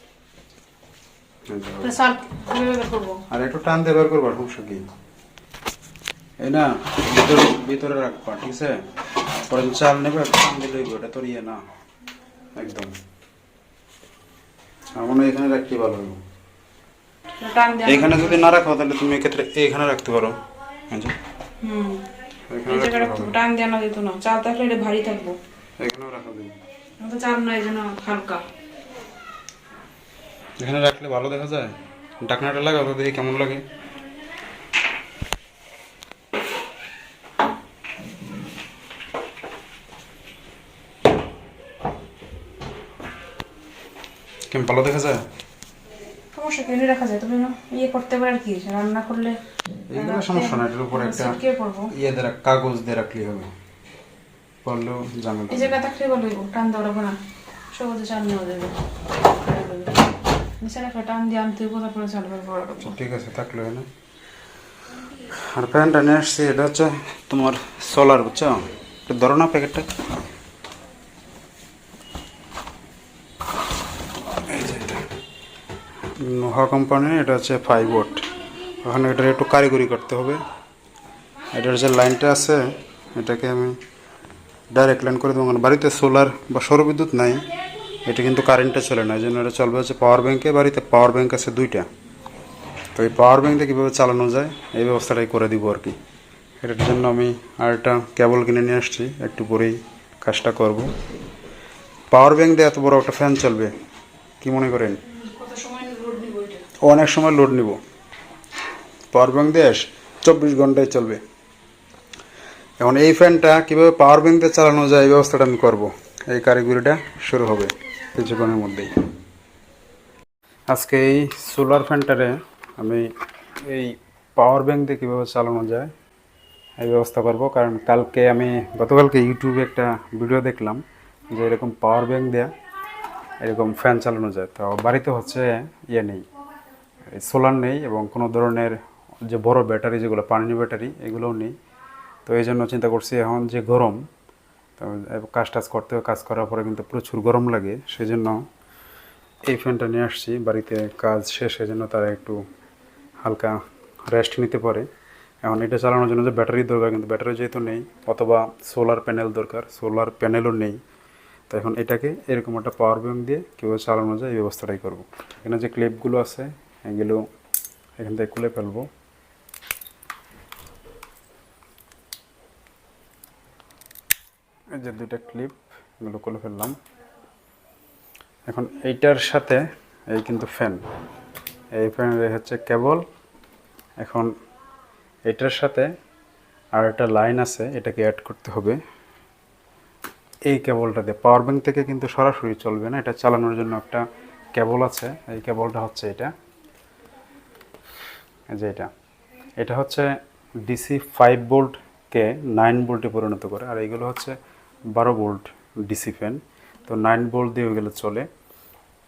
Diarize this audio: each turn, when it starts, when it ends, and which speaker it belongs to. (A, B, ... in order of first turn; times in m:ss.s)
0:01.5-0:01.9 A
0:01.8-0:03.2 B
0:03.3-0:04.9 A
0:06.4-0:08.9 A
0:09.5-0:11.6 A
0:12.6-0:12.9 A
0:15.0-0:16.2 A
0:17.4-0:18.4 B
0:17.9-0:20.4 A
0:20.9-0:21.2 A
0:21.6-0:22.0 B
0:22.5-0:23.4 A
0:22.7-0:25.4 B
0:25.8-0:26.5 A
0:27.0-0:28.4 B
0:30.6-0:33.6 A
0:44.5-0:45.2 A
0:46.3-0:49.4 B
0:49.9-0:51.4 A
0:49.9-0:51.9 B
0:51.9-0:53.5 A
0:54.6-0:55.8 A
0:55.5-0:57.2 B
0:57.7-1:00.0 B
1:00.6-1:03.0 B
1:02.8-1:03.9 A
1:05.4-1:09.9 A
1:14.5-1:15.0 A
1:16.2-1:18.2 A
1:18.8-1:20.4 A
1:21.5-1:23.8 A
1:24.7-1:27.4 A
1:28.1-1:31.9 A
1:33.0-1:36.0 A
1:36.6-1:40.9 A
1:42.1-1:43.7 A
1:44.4-1:45.0 A
1:45.1-1:46.6 B
1:46.8-1:47.8 A
1:49.1-1:51.2 A
1:52.8-1:58.9 A
2:00.7-2:03.1 A
2:03.6-2:05.9 A
2:06.8-2:10.8 A
2:11.3-2:12.5 A
2:13.4-2:16.2 A
2:17.1-2:21.5 A
2:22.3-2:24.0 A
2:24.8-2:28.4 A
2:29.5-2:32.4 A
2:33.2-2:34.9 A
2:35.4-2:40.8 A
2:41.5-2:47.2 A
2:48.0-2:48.9 A
2:54.8-2:56.8 A
2:58.5-3:00.8 A
3:01.8-3:03.0 A
3:04.0-3:04.3 A
3:05.3-3:05.9 A
3:06.8-3:08.8 A
3:10.5-3:14.0 A
3:14.6-3:16.3 A
3:18.5-3:18.9 A
3:19.6-3:20.1 A
3:20.7-3:24.4 A
3:25.0-3:28.3 A